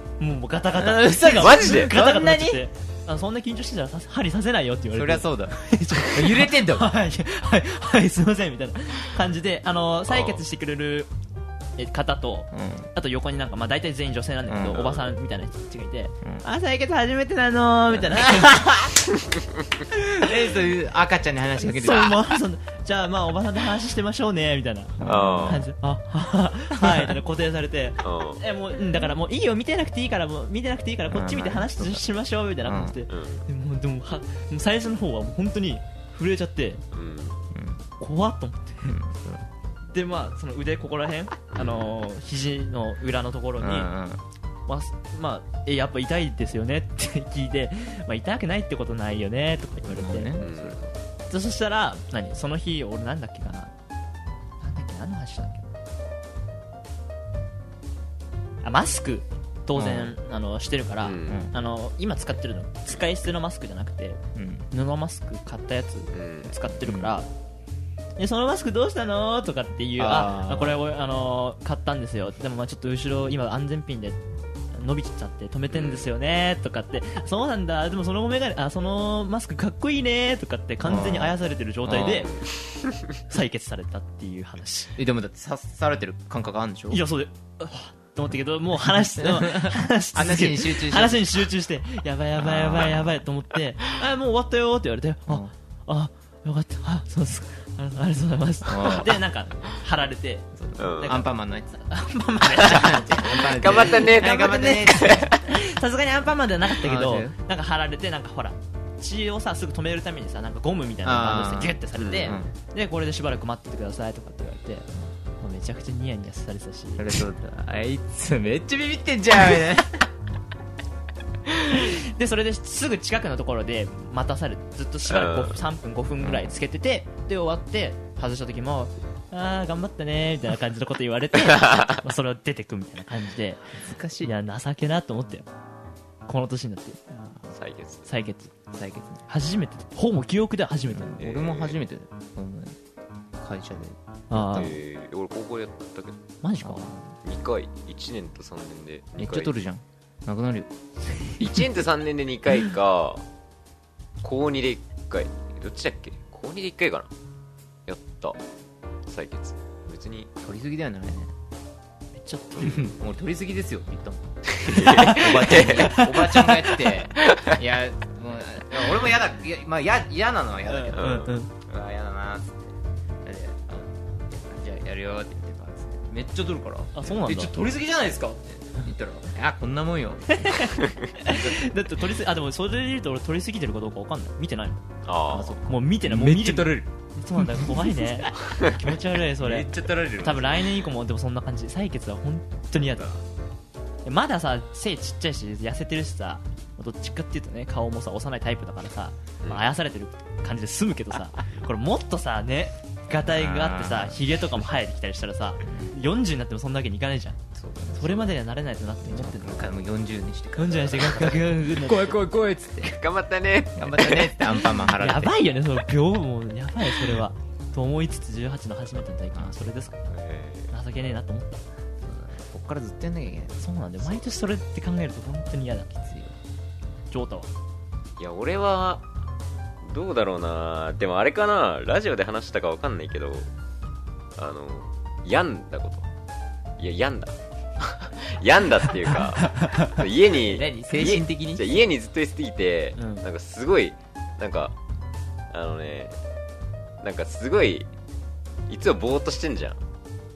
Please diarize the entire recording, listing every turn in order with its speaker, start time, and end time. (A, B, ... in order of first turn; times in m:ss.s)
0:00.2-0:11.1 A
0:00.8-0:02.6 B
0:01.4-0:01.9 C
0:04.9-0:06.9 B
0:10.1-0:10.4 C
0:11.8-0:18.7 A
0:12.5-0:12.9 B
0:14.5-0:14.8 B
0:14.7-0:15.1 C
0:17.9-0:19.0 B
0:19.9-0:22.2 B
0:21.6-0:36.8 A
0:25.0-0:25.6 B
0:25.0-0:25.7 C
0:26.8-0:27.1 B
0:28.0-0:28.4 C
0:31.1-0:32.0 B
0:32.6-0:33.0 B
0:33.1-0:33.5 C
0:36.9-0:37.4 C
0:37.5-0:37.8 B
0:38.0-0:39.0 A
0:38.9-0:39.5 B
0:39.9-0:43.9 A
0:41.5-0:41.9 C
0:43.6-0:44.2 B
0:44.7-0:50.4 A
0:49.9-0:50.9 B
0:50.4-0:50.8 C
0:51.3-0:53.7 A
0:54.6-0:55.7 A
0:58.6-1:04.2 A
0:59.7-1:00.2 B
1:01.0-1:01.4 C
1:04.4-1:04.7 B
1:04.7-1:07.3 A
1:06.1-1:06.5 C
1:06.8-1:07.1 B
1:08.2-1:14.2 A
1:10.0-1:10.8 B
1:14.7-1:22.3 A
1:15.7-1:16.1 C
1:20.8-1:22.3 B
1:22.3-1:23.0 C
1:23.3-1:24.9 A
1:25.0-1:27.0 B
1:26.9-1:54.9 A
1:29.0-1:31.5 B
1:32.4-1:33.2 B
1:35.3-1:35.5 B
1:38.6-1:39.1 B
1:40.6-1:41.8 B
1:40.8-1:41.2 C
1:42.6-1:45.4 B
1:43.4-1:45.3 C
1:46.8-1:47.4 B
1:51.0-1:52.5 B
1:52.0-1:52.4 C
1:55.4-1:57.2 A
1:57.0-2:00.0 B
2:01.6-2:13.6 A
2:05.1-2:05.6 C
2:06.2-2:06.6 B
2:13.6-2:14.3 B
2:14.2-2:15.5 A
2:16.3-2:17.4 A
2:17.5-2:18.1 C
2:18.0-2:18.5 A
2:18.7-2:19.2 B
2:19.3-2:21.1 A
2:20.9-2:22.8 B
2:21.2-2:21.8 C
2:23.4-2:24.7 B
2:24.3-2:24.7 A
2:24.6-2:26.2 C
2:26.4-2:26.9 A
2:26.6-2:27.1 B
2:27.2-2:29.5 C
2:29.2-2:30.7 B
2:31.4-2:33.2 C
2:34.2-2:37.1 C
2:37.9-2:38.4 C
2:39.1-2:40.3 C
2:40.4-2:41.3 B
2:42.1-2:42.9 A
2:42.6-2:52.7 B
2:44.6-2:45.9 C
2:44.7-2:46.8 A
2:47.3-2:47.5 C
2:50.7-2:51.5 A
2:51.0-2:51.3 C
2:53.2-3:01.7 B
2:56.9-2:57.5 A
3:00.3-3:13.2 A
3:05.1-3:05.6 C
3:05.3-3:08.3 B
3:09.4-3:10.8 B
3:12.8-3:13.2 B
3:14.0-3:27.4 A
3:23.2-3:24.2 B
3:25.6-3:26.0 B
3:27.6-3:28.4 B
3:27.9-3:29.8 A
3:29.0-3:32.9 B
3:30.6-3:32.3 A
3:32.9-3:34.4 C
3:33.8-3:35.4 B
3:34.5-3:40.0 A
3:39.3-3:39.8 B
3:40.1-3:40.7 C
3:40.7-3:41.6 A
3:42.0-3:44.3 B
3:43.6-3:45.9 A
3:45.9-3:46.4 B
3:47.1-3:47.5 A
3:48.2-3:49.0 C
3:49.8-3:53.5 C
3:54.4-3:56.1 C
3:56.8-4:04.7 C
3:59.6-3:59.9 A
4:00.3-4:01.8 B
4:03.0-4:03.2 A
4:05.5-4:06.2 C
4:07.0-4:07.9 C
4:08.7-4:09.8 C